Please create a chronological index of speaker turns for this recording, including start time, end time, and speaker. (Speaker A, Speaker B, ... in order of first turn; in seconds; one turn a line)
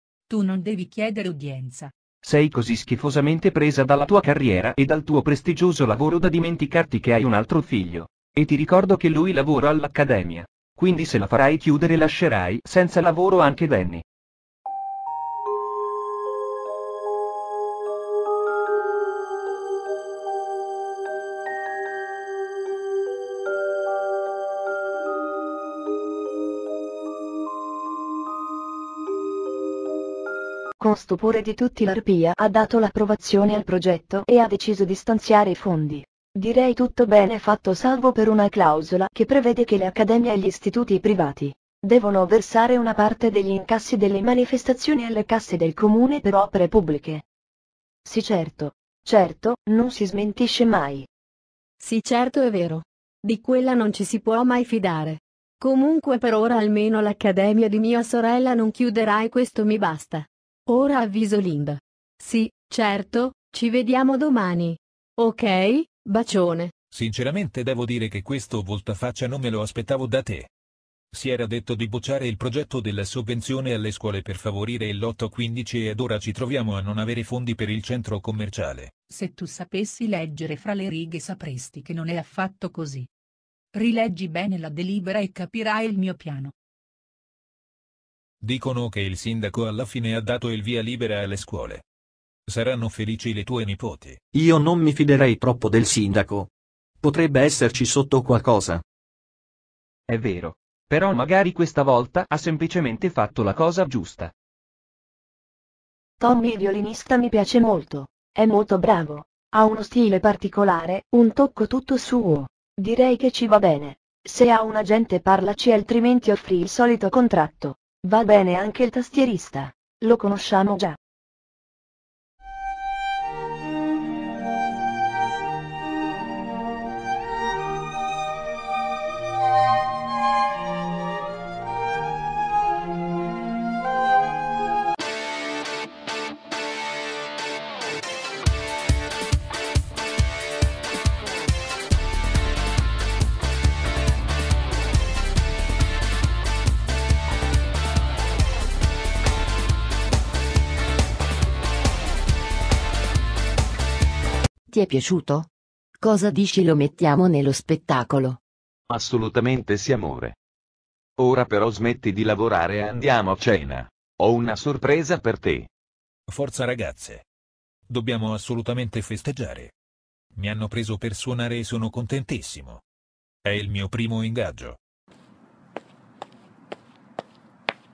Speaker A: 0.3-1.9
Speaker B: 2.2-14.0
Speaker C: 30.8-47.2
Speaker C: 48.0-51.1
Speaker D: 51.8-66.7
Speaker E: 66.9-70.5
Speaker E: 71.1-78.9
Speaker A: 79.1-83.1
Speaker A: 83.7-86.5
Speaker E: 88.4-91.8
Speaker E: 92.5-94.2
Speaker F: 94.3-96.5
Speaker F: 97.0-98.8
Speaker B: 100.1-104.3
Speaker C: 106.2-121.0
Speaker G: 154.7-158.4
Speaker H: 158.9-160.4
Speaker H: 161.2-165.7
Speaker E: 166.3-167.2
Speaker E: 167.9-169.7
Speaker E: 170.4-172.8
Speaker E: 173.4-174.8